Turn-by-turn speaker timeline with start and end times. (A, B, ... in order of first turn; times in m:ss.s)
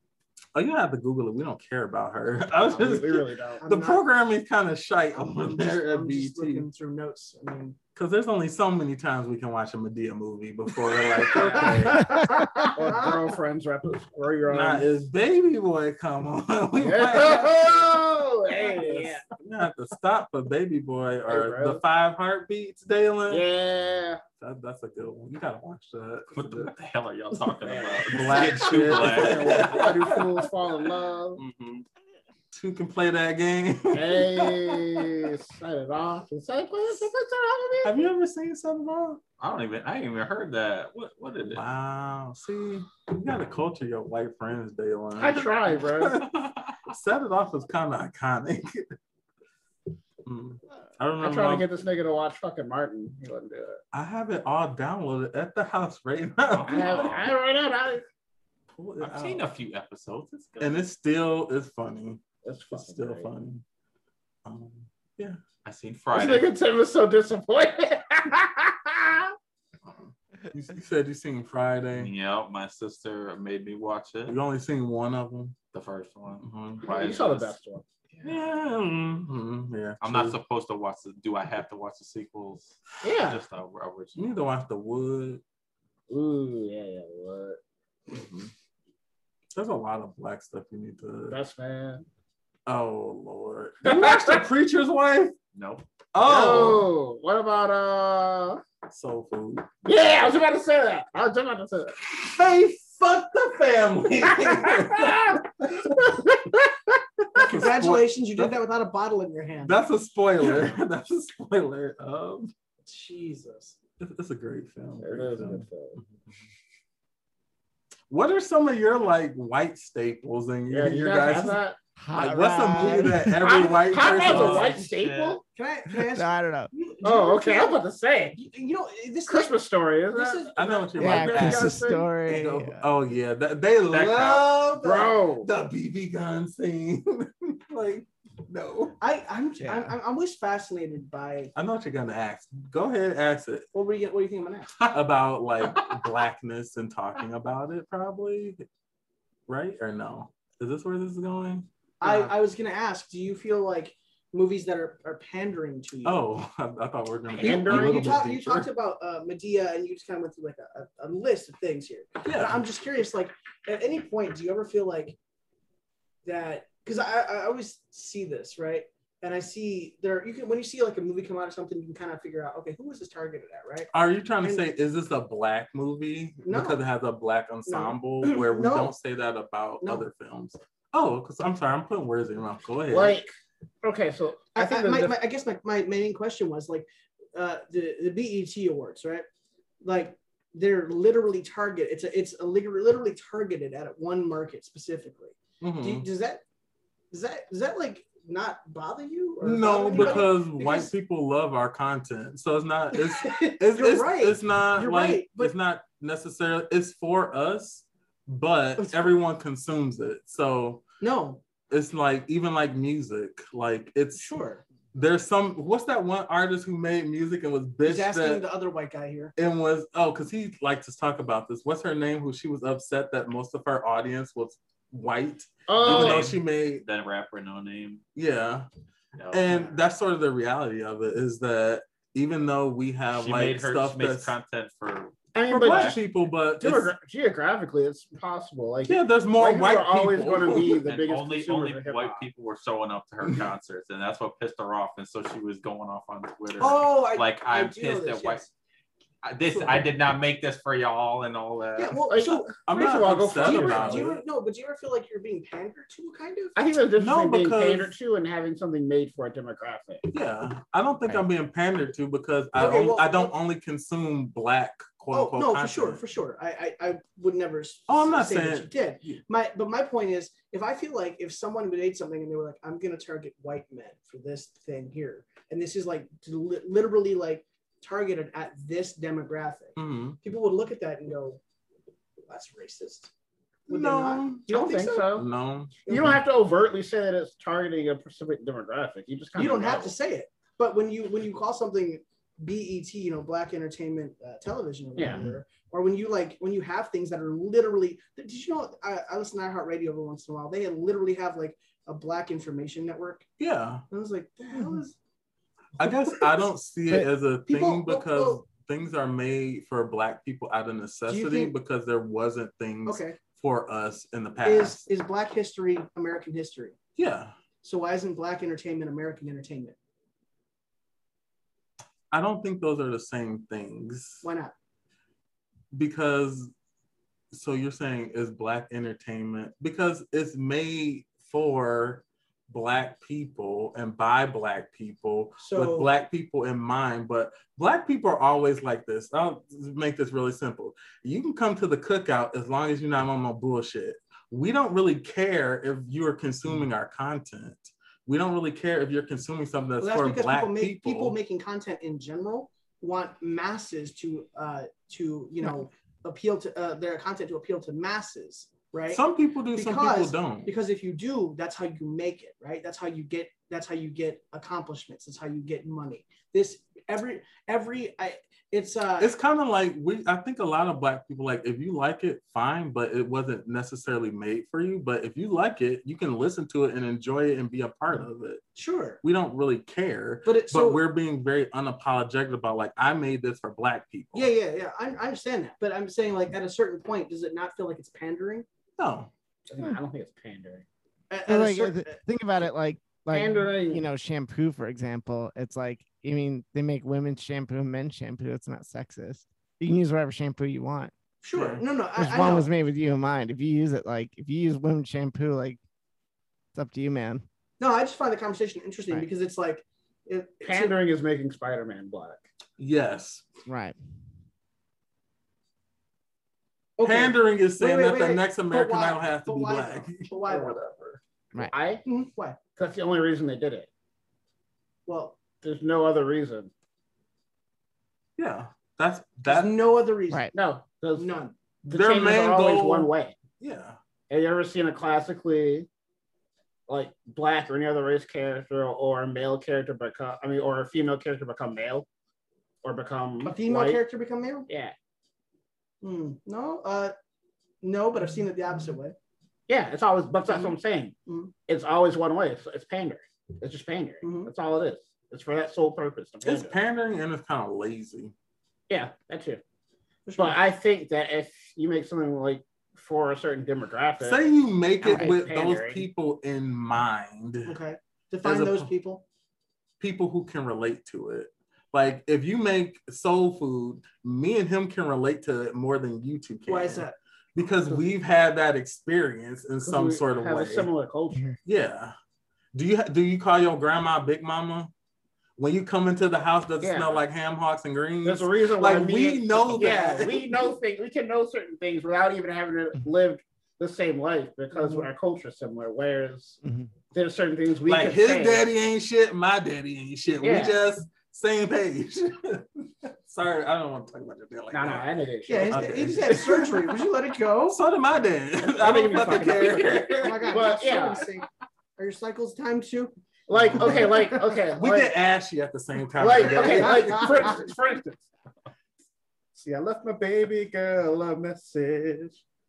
0:00.6-0:06.7 A
0:02.6-0:03.6 B
0:03.6-0:04.0 C
0:05.2-0:07.8 C
0:07.9-0:12.2 A
0:11.0-0:13.2 C
0:11.3-0:15.0 B
0:14.5-0:18.0 A
0:16.8-0:19.3 B
0:18.7-0:23.4 A
0:21.3-0:21.8 B
0:23.3-0:24.2 B
0:24.4-0:26.7 A
0:26.3-0:29.9 D
0:27.6-0:31.4 B
0:28.0-0:30.5 A
0:31.4-0:31.9 D
0:32.5-0:35.3 A
0:33.9-0:38.1 B
0:37.8-0:39.2 A
0:39.4-0:41.6 D
0:41.5-0:49.0 A
0:45.2-0:46.2 B
0:46.3-0:46.8 D
0:50.2-0:51.6 A
0:51.2-0:53.8 B
0:53.9-0:57.2 A
0:56.4-0:57.3 D
0:56.7-0:58.0 B
0:58.7-0:59.5 A
0:59.0-1:00.8 D
1:00.6-1:03.6 A
1:02.4-1:03.3 B
1:04.4-1:05.4 A
1:05.6-1:06.5 D
1:06.1-1:09.3 B
1:09.9-1:12.1 A
1:11.9-1:14.4 D
1:14.3-1:15.6 A
1:15.7-1:17.6 D
1:16.4-1:16.9 A
1:16.8-1:17.8 B
1:18.2-1:20.4 A
1:20.0-1:24.3 D
1:23.0-1:23.4 B
1:24.1-1:25.4 A
1:26.1-1:27.6 B
1:28.1-1:28.5 A
1:29.5-1:31.4 A
1:31.3-1:32.0 B
1:32.6-1:35.3 A
1:33.8-1:34.4 B
1:35.6-1:35.9 D
1:36.1-1:36.9 A
1:36.2-1:38.6 B
1:38.9-1:39.7 A
1:39.8-1:42.0 B
1:42.1-1:46.2 A
1:44.3-1:45.4 B
1:45.9-1:46.5 B
1:47.3-1:48.5 A
1:47.4-1:49.8 C
1:49.6-1:52.5 A
1:52.9-1:53.8 C
1:54.0-1:56.1 A
1:55.0-1:56.0 B
1:58.1-2:01.6 A
2:00.7-2:01.8 B
2:02.0-2:03.5 E
2:02.1-2:04.8 A
2:03.3-2:05.4 B
2:04.1-2:05.4 D
2:05.6-2:07.8 C
2:05.9-2:06.7 E
2:07.0-2:08.4 B
2:08.3-2:09.6 C
2:09.3-2:10.4 B
2:10.1-2:11.0 C
2:10.5-2:19.0 A
2:11.0-2:12.1 B
2:11.0-2:12.9 E
2:13.9-2:14.4 D
2:14.8-2:15.5 B
2:19.0-2:21.5 C
2:21.6-2:23.7 A
2:23.7-2:24.7 C
2:24.8-2:28.6 A
2:25.7-2:26.0 D
2:29.5-2:32.3 A
2:32.0-2:36.2 C
2:36.0-2:38.7 A
2:37.3-2:38.2 B
2:37.4-2:45.2 C
2:42.2-2:42.6 A
2:46.2-2:53.9 C
2:53.9-3:03.2 A
2:56.4-2:56.8 C
2:57.7-2:58.9 C
3:02.9-3:05.2 B
3:04.5-3:09.3 C
3:09.8-3:16.4 C
3:15.6-3:16.0 A
3:17.1-3:20.9 C
3:19.4-3:30.8 A
3:22.9-3:25.5 C
3:28.8-3:29.2 C
3:31.0-3:31.4 C
3:31.7-3:34.3 A
3:34.1-3:34.6 C
3:34.9-3:38.4 A
3:37.8-3:39.3 C
3:39.4-3:46.8 A
3:45.7-3:46.3 B
3:45.8-3:48.0 D
3:48.2-3:48.7 A
3:49.2-3:49.8 D
3:49.3-3:54.3 A
3:53.1-3:56.0 D
3:55.3-3:56.0 B
3:55.5-3:56.9 A
3:56.6-4:02.3 B
3:58.9-4:00.9 A
4:00.9-4:08.5 D
4:06.6-4:08.5 C
4:09.2-4:12.0 D
4:09.5-4:09.8 C
4:11.7-4:16.5 C
4:12.1-4:14.1 B
4:12.7-4:14.2 A
4:16.6-4:20.0 B
4:17.0-4:17.9 A
4:20.1-4:26.0 A
4:22.6-4:23.3 C
4:25.1-4:41.4 C
4:27.9-4:29.2 A
4:39.8-4:40.2 A
4:42.3-4:43.1 C
4:43.7-4:45.2 C
4:43.7-4:46.1 A
4:44.5-4:45.2 B
4:45.9-4:46.2 C
4:45.9-4:49.9 B
4:49.3-5:03.2 C
4:55.0-4:55.2 B
5:03.4-5:03.8 A
5:03.9-5:05.0 C
5:05.8-5:14.8 A
5:07.5-5:08.4 C
5:11.1-5:11.5 C
5:12.9-5:13.2 C
5:14.4-5:16.8 C
5:17.0-5:17.3 A
5:17.6-5:19.8 C
5:22.1-5:24.2 A
5:24.2-5:24.5 C
5:25.7-5:26.5 A
5:27.3-5:51.2 A
5:35.4-5:35.9 C
5:49.8-5:59.0 C
5:58.9-6:00.5 A
5:59.5-6:09.1 C
6:09.0-6:18.4 A
6:18.5-6:19.0 C
6:19.0-6:24.3 A
6:20.2-6:20.8 C
6:24.1-6:28.4 C
6:28.8-6:29.1 A
6:29.5-6:30.6 B
6:31.1-6:32.0 C
6:31.2-6:40.9 E
6:33.1-6:33.8 B
6:41.2-6:42.5 C
6:41.3-6:41.6 A
6:42.0-6:45.6 E
6:46.5-6:47.2 E
6:47.6-6:50.7 C
6:50.4-6:52.2 B
6:52.6-6:53.2 A
6:53.5-6:53.8 E
6:56.8-7:01.0 C
6:56.8-7:00.1 A
7:00.3-7:00.6 B
7:01.5-7:01.8 B
7:01.8-7:02.4 C
7:02.6-7:03.7 B
7:04.9-7:05.2 C
7:05.4-7:06.5 B
7:08.2-7:09.5 A
7:09.2-7:10.3 C
7:10.1-7:10.3 E
7:10.3-7:13.1 B
7:11.0-7:11.3 C
7:11.7-7:13.8 A
7:14.1-7:15.7 B
7:16.7-7:21.9 B
7:22.6-7:23.8 B
7:23.2-7:24.5 C
7:24.5-7:24.7 B
7:25.8-7:26.9 C
7:27.6-7:29.0 C
7:29.5-7:31.0 B
7:30.3-7:30.5 C
7:31.1-7:31.3 C
7:31.5-7:36.6 B
7:34.0-7:34.3 C
7:36.2-7:38.1 A
7:38.7-7:39.4 B
7:40.0-7:40.4 C
7:40.2-7:44.3 B
7:44.0-7:47.6 A
7:44.8-7:45.8 B
7:44.8-7:45.1 E
7:47.4-7:49.0 C
7:48.2-7:48.7 A
7:49.8-8:00.7 A
7:56.5-7:57.0 C
7:59.6-8:01.3 B
8:01.4-8:02.0 A
8:02.5-8:04.7 A
8:05.4-8:10.5 A
8:06.6-8:07.0 B
8:08.0-8:16.4 B
8:14.5-8:14.9 C
8:16.9-8:18.4 B
8:17.7-8:22.4 A
8:20.2-8:20.6 B
8:23.0-8:24.9 A
8:24.5-8:26.6 B
8:25.3-8:27.6 C
8:25.5-8:26.2 A
8:27.5-8:30.6 A
8:28.4-8:31.0 B
8:30.0-8:31.2 C
8:31.8-8:32.9 C
8:33.3-8:34.9 B
8:33.3-8:37.4 A
8:33.6-8:34.3 C
8:36.0-8:38.0 B
8:36.1-8:37.4 C
8:39.3-8:42.2 B